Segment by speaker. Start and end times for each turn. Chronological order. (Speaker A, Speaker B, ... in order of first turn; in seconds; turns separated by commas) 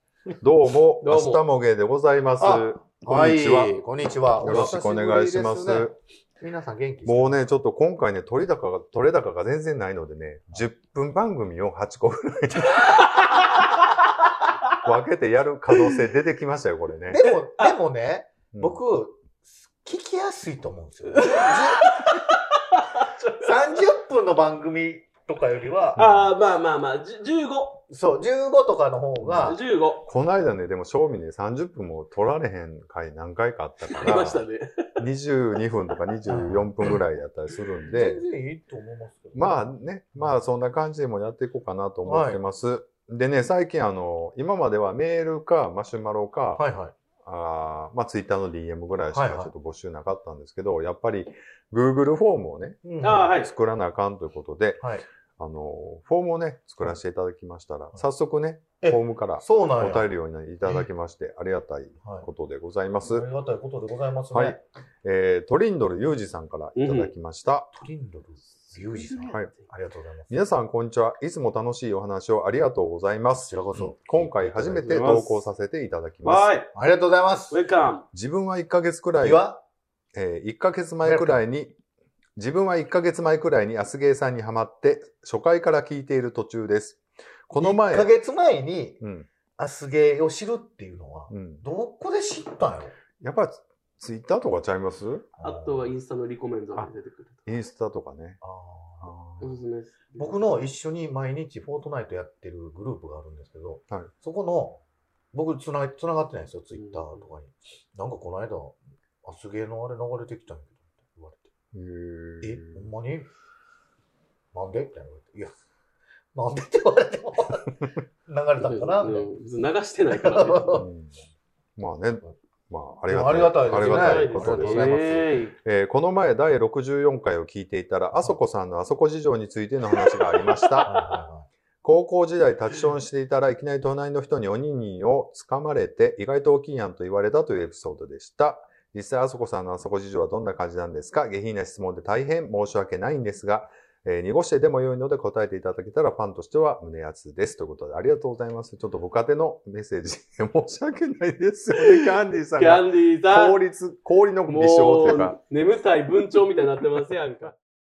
Speaker A: 0.4-3.8, Speaker B: 1.0-1.4, Speaker C: 2.4-7.4, Speaker A: 4.4-6.0, Speaker B: 4.4-4.7, Speaker A: 7.0-13.0, Speaker B: 12.8-13.8, Speaker A: 14.8-17.2, Speaker B: 15.7-16.0, Speaker C: 17.1-22.4, Speaker B: 17.2-17.7, Speaker A: 18.5-18.8, Speaker B: 21.1-23.8, Speaker C: 23.4-26.0, Speaker A: 25.9-26.3, Speaker B: 26.0-27.8, Speaker C: 27.9-29.6, Speaker B: 29.4-30.0, Speaker A: 30.0-34.4, Speaker B: 33.9-35.0, Speaker A: 35.0-38.2, Speaker C: 36.2-37.0, Speaker C: 37.9-39.6, Speaker A: 39.3-46.6, Speaker C: 42.0-42.4, Speaker C: 46.5-46.9, Speaker A: 47.2-54.9, Speaker C: 49.1-49.5, Speaker C: 52.8-53.3, Speaker B: 53.0-53.5, Speaker A: 55.4-63.2, Speaker C: 58.8-60.1, Speaker C: 62.0-62.3, Speaker C: 63.0-64.6, Speaker A: 64.3-67.7, Speaker B: 66.8-67.1, Speaker C: 67.7-70.4, Speaker B: 68.6-69.5, Speaker A: 70.3-76.5, Speaker C: 73.3-75.1, Speaker B: 74.7-75.5, Speaker B: 76.2-76.7, Speaker C: 76.7-77.6, Speaker B: 77.5-78.0, Speaker A: 78.1-79.5, Speaker C: 79.2-79.6, Speaker A: 80.1-81.8, Speaker C: 81.0-81.4, Speaker A: 82.3-88.1, Speaker C: 87.6-89.0, Speaker A: 89.0-89.3, Speaker C: 89.6-92.9, Speaker A: 91.3-91.6, Speaker A: 93.2-95.3, Speaker C: 95.4-95.9, Speaker B: 95.4-97.6, Speaker A: 97.5-98.4, Speaker C: 98.4-99.1, Speaker A: 99.0-99.5, Speaker B: 99.4-100.4, Speaker C: 100.2-104.8, Speaker C: 105.3-111.5, Speaker B: 106.8-107.2, Speaker A: 111.7-112.9, Speaker C: 112.4-113.3, Speaker C: 114.5-115.5, Speaker C: 116.3-119.3, Speaker B: 118.6-120.8, Speaker C: 120.1-120.8, Speaker A: 120.8-121.2, Speaker A: 121.8-130.9, Speaker C: 123.1-125.3, Speaker B: 123.7-125.5, Speaker C: 130.8-131.5, Speaker A: 131.8-155.4, Speaker B: 151.8-153.6, Speaker B: 154.5-157.5